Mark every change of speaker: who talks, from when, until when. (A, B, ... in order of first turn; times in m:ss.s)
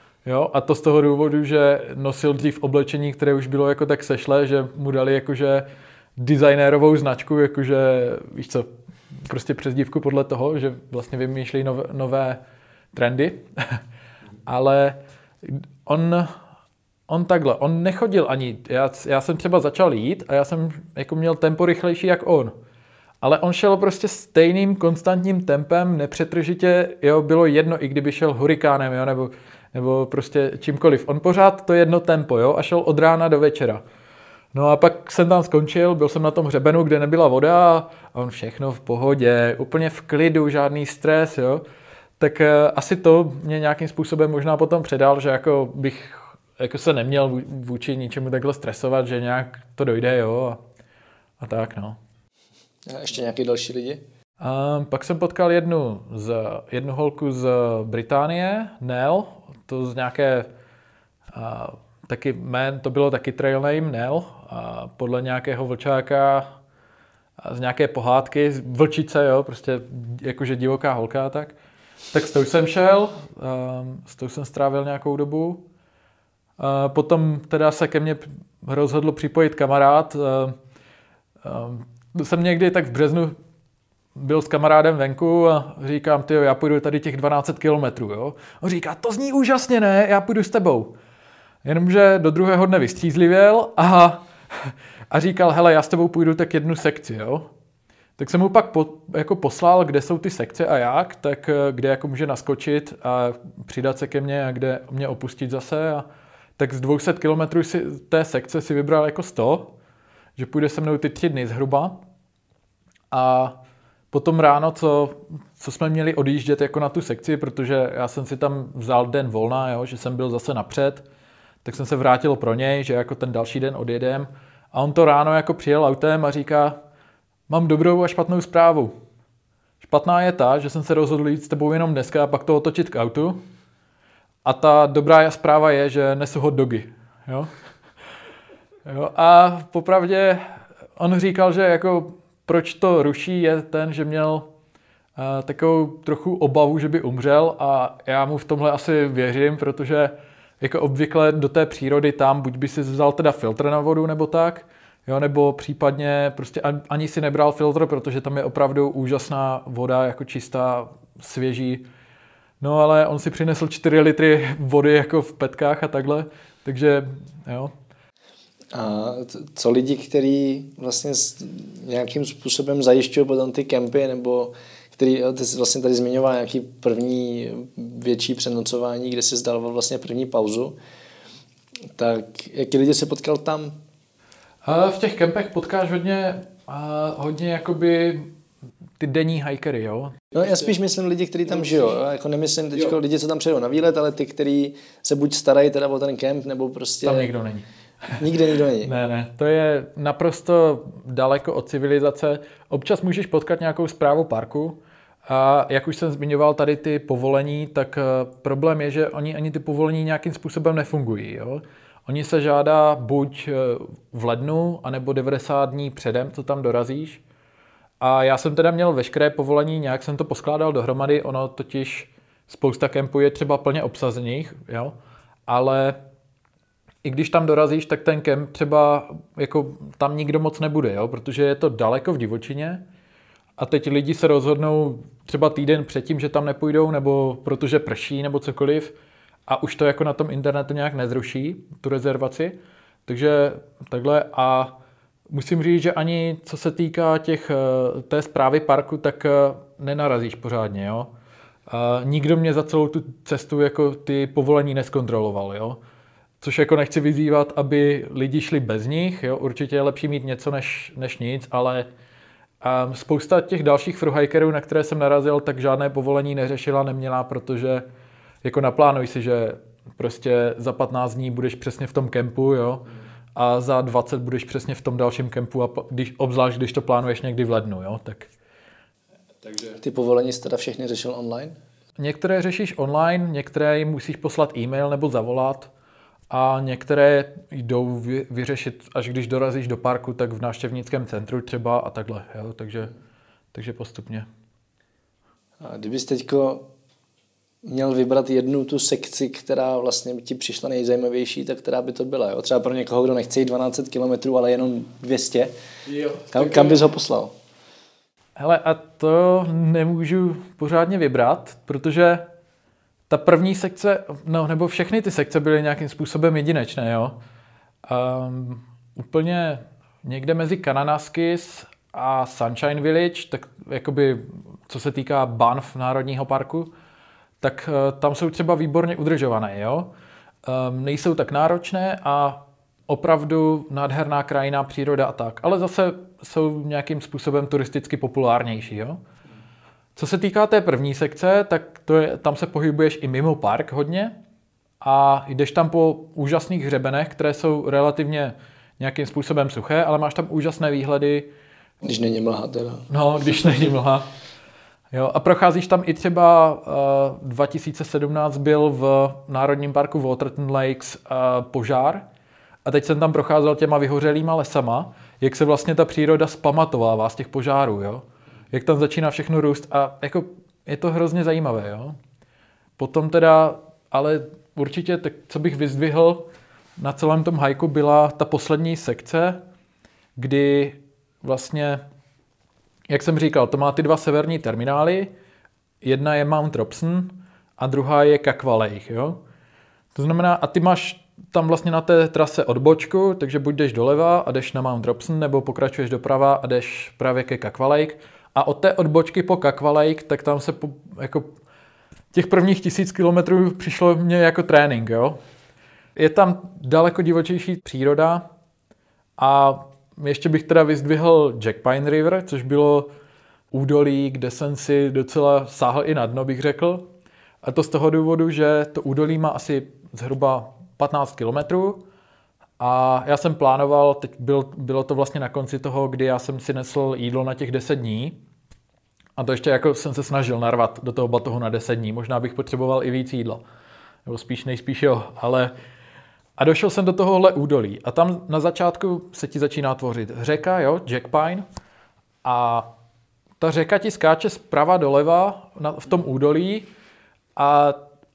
0:00.2-0:12.4 A
0:12.9-0:13.8 A
0:14.4-0:16.4 A
0:17.1-0:22.6 A
0:23.2-0:33.8 A
0:34.5-0:41.6 A
0:42.2-0:50.6 A
0:51.4-0:52.0 A
0:52.9-0:54.0 B
0:54.4-1:00.5 A
1:01.3-1:06.5 A
1:07.4-1:11.6 A
1:12.1-1:15.6 A
1:16.6-1:20.6 A
1:21.4-1:23.4 A
1:24.2-1:31.0 A
1:31.6-1:37.5 A
1:38.2-1:46.1 A
1:46.6-1:49.7 A
1:50.4-1:52.0 A
1:53.1-1:53.6 A
1:54.1-2:01.0 A
2:01.6-2:06.8 A
2:07.5-2:09.0 A
2:09.8-2:13.4 A
2:14.4-2:17.5 A
2:18.8-2:24.5 A
2:25.2-2:41.8 A
2:42.6-2:47.7 A
2:48.7-3:00.8 B
3:02.0-3:03.8 B
3:04.6-3:08.3 A
3:09.0-3:10.2 A
3:10.3-3:17.3 B
3:17.0-3:18.2 A
3:18.2-3:18.9 B
3:18.8-3:37.2 A
3:38.0-3:45.0 A
3:45.5-3:46.0 A
3:47.0-3:52.8 A
3:53.6-3:59.0 A
3:59.5-4:04.8 A
4:05.3-4:11.1 A
4:11.7-4:15.8 A
4:16.4-4:21.9 A
4:22.6-4:27.9 A
4:28.4-4:38.3 A
4:39.8-4:41.6 B
4:42.0-4:45.7 A
4:46.3-4:52.9 A
4:53.5-4:54.3 A
4:55.6-4:56.6 B
4:57.6-5:05.5 B
5:05.9-5:06.8 A
5:06.3-5:07.3 B
5:08.4-5:12.3 A
5:13.1-5:17.2 A
5:17.8-5:26.7 A
5:27.4-5:29.9 A
5:30.4-5:39.0 A
5:40.0-5:44.2 A
5:44.8-5:51.3 A
5:51.8-5:52.9 B
5:52.9-5:54.1 A
5:54.9-6:02.0 A
6:02.6-6:12.0 A
6:12.8-6:16.3 A
6:16.8-6:19.4 A
6:20.2-6:21.8 A
6:22.9-6:25.1 A
6:25.8-6:29.2 A
6:29.9-6:41.3 A
6:42.1-6:45.2 A
6:46.0-6:48.3 A
6:49.2-6:52.9 A
6:53.5-6:56.9 A
6:57.4-7:01.8 A
7:02.6-7:08.2 A
7:09.2-7:13.4 A
7:14.0-7:15.6 A
7:16.4-7:21.5 A
7:22.2-7:22.7 A
7:23.4-7:26.7 A
7:27.4-7:27.8 A